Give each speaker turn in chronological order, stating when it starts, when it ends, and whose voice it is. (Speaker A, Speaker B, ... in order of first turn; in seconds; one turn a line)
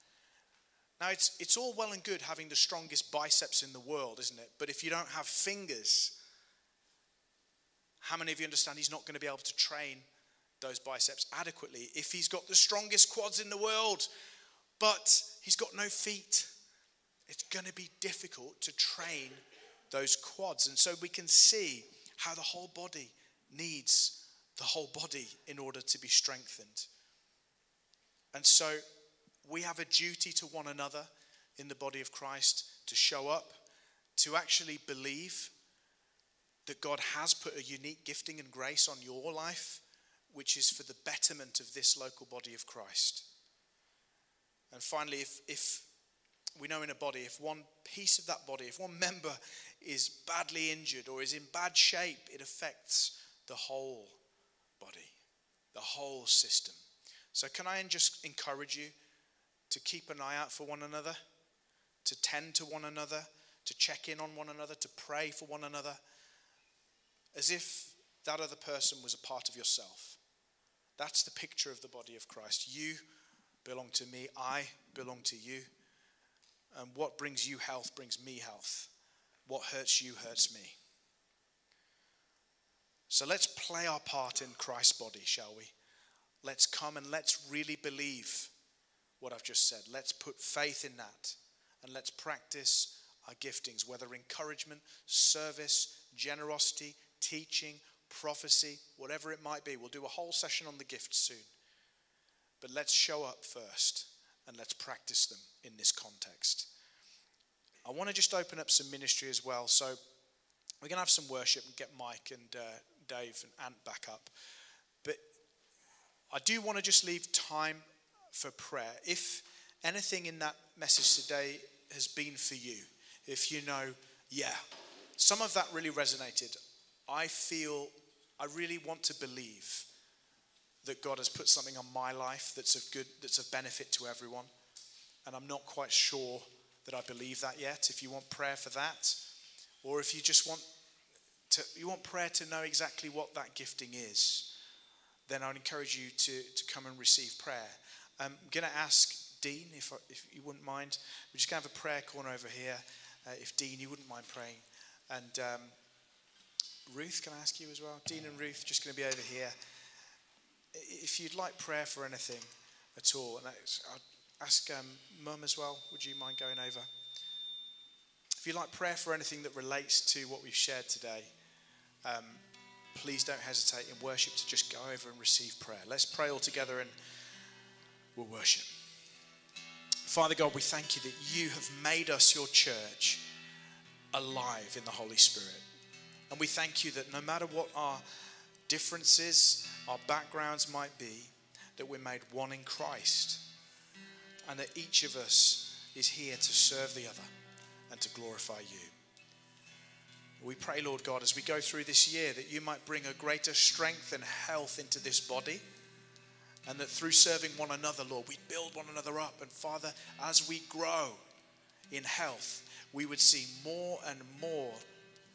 Speaker A: 1.0-6.2
Speaker A: 8.0-10.1
Speaker A: 10.6-14.1
Speaker A: 14.8-16.5
Speaker A: 17.3-26.9
Speaker A: 28.3-28.8
Speaker A: 29.4-33.6
Speaker A: 34.1-35.5
Speaker A: 36.6-43.2
Speaker A: 44.7-45.9
Speaker A: 46.6-54.2
Speaker A: 54.8-55.2
Speaker A: 55.7-56.8
Speaker A: 57.3-58.9
Speaker A: 59.7-61.2
Speaker A: 62.0-66.0
Speaker A: 67.3-70.2
Speaker A: 71.0-73.0
Speaker A: 73.6-75.7
Speaker A: 76.7-78.9
Speaker A: 79.5-80.8
Speaker A: 83.1-85.7
Speaker A: 86.4-88.5
Speaker A: 89.2-101.5
Speaker A: 102.6-106.7
Speaker A: 107.8-110.0
Speaker A: 110.8-114.3
Speaker A: 116.3-124.6
Speaker A: 125.2-126.5
Speaker A: 127.1-129.9
Speaker A: 130.8-134.5
Speaker A: 135.2-139.2
Speaker A: 139.8-140.6
Speaker A: 141.5-144.5
Speaker A: 145.3-155.7
Speaker A: 156.9-159.5
Speaker A: 160.7-166.9
Speaker A: 168.4-171.3
Speaker A: 172.0-176.9
Speaker A: 178.1-178.7
Speaker A: 180.1-183.3
Speaker A: 184.1-185.6
Speaker A: 186.3-188.0
Speaker A: 188.7-193.4
Speaker A: 194.4-197.3
Speaker A: 197.9-198.9
Speaker A: 200.4-205.6
Speaker A: 206.7-211.2
Speaker A: 211.9-214.8